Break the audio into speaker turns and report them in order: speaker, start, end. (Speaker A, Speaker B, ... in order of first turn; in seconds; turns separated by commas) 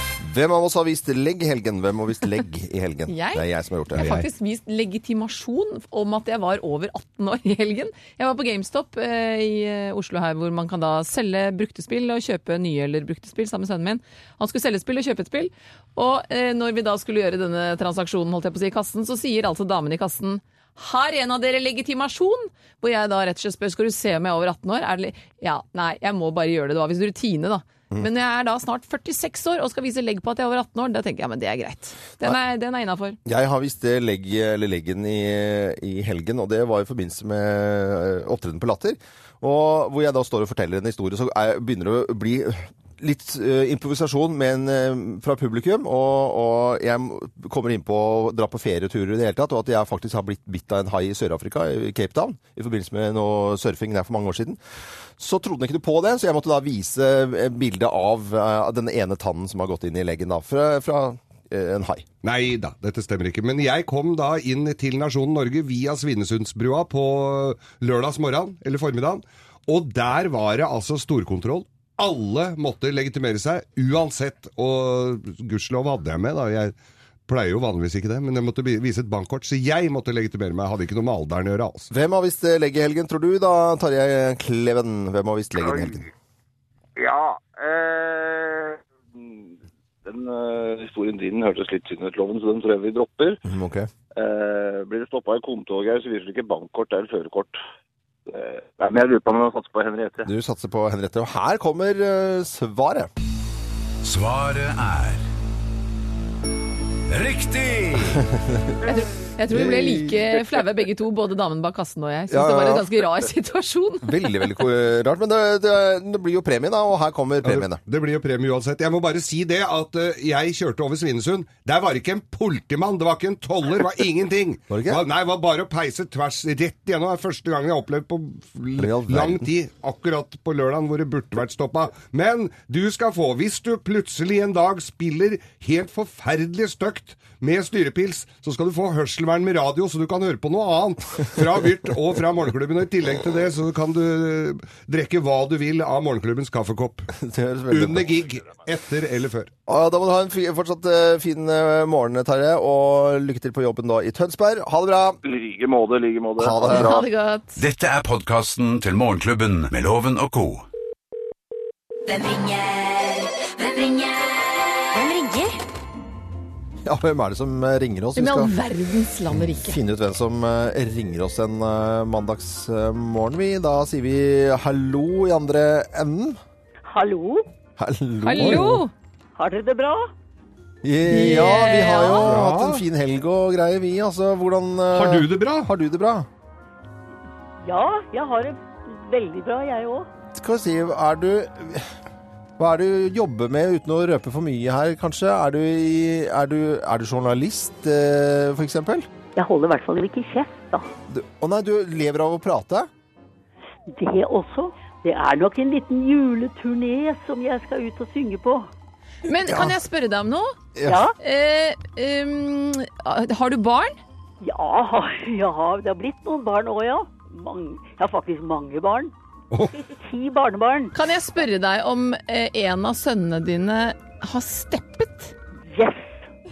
Speaker A: 0.2-4.1, Speaker B: 3.1-33.2, Speaker C: 4.0-4.3, Speaker A: 33.2-54.6, Speaker A: 55.2-62.1, Speaker C: 62.2-76.7, Speaker C: 77.3-81.9, Speaker A: 81.9-86.0, Speaker D: 85.6-86.1, Speaker D: 87.0-93.4, Speaker A: 93.4-93.9, Speaker D: 94.1-97.6, Speaker D: 98.3-100.3, Speaker A: 100.2-103.1, Speaker E: 104.0-105.2, Speaker E: 107.1-108.2, Speaker A: 108.2-108.8, Speaker B: 108.8-114.5, Speaker A: 109.5-110.3, Speaker A: 112.3-113.0, Speaker A: 114.0-117.8, Speaker C: 117.4-147.1, Speaker A: 124.7-125.0, Speaker A: 128.8-129.5, Speaker A: 147.1-148.2, Speaker C: 147.7-149.5, Speaker A: 149.7-155.2, Speaker D: 155.2-156.9, Speaker A: 156.4-157.1, Speaker B: 156.7-157.6, Speaker E: 157.6-160.6, Speaker F: 162.1-165.6, Speaker A: 166.8-168.5, Speaker B: 168.2-169.8, Speaker A: 169.3-176.4, Speaker G: 176.9-177.4, Speaker A: 177.8-178.8, Speaker B: 178.2-178.9, Speaker C: 178.4-178.7, Speaker G: 179.4-180.1, Speaker A: 180.8-186.3, Speaker B: 181.1-182.3, Speaker C: 182.2-182.8, Speaker C: 184.9-185.7, Speaker G: 187.6-190.1, Speaker A: 190.3-191.9, Speaker A: 192.6-199.1, Speaker G: 199.3-200.9, Speaker A: 201.1-202.9, Speaker G: 203.9-208.7, Speaker B: 209.2-210.6, Speaker A: 209.4-209.8, Speaker A: 210.7-211.0, Speaker G: 210.8-211.2, Speaker B: 211.2-214.0, Speaker G: 214.4-219.1, Speaker C: 219.5-219.8, Speaker G: 219.9-220.9, Speaker B: 220.9-225.3, Speaker G: 225.7-226.3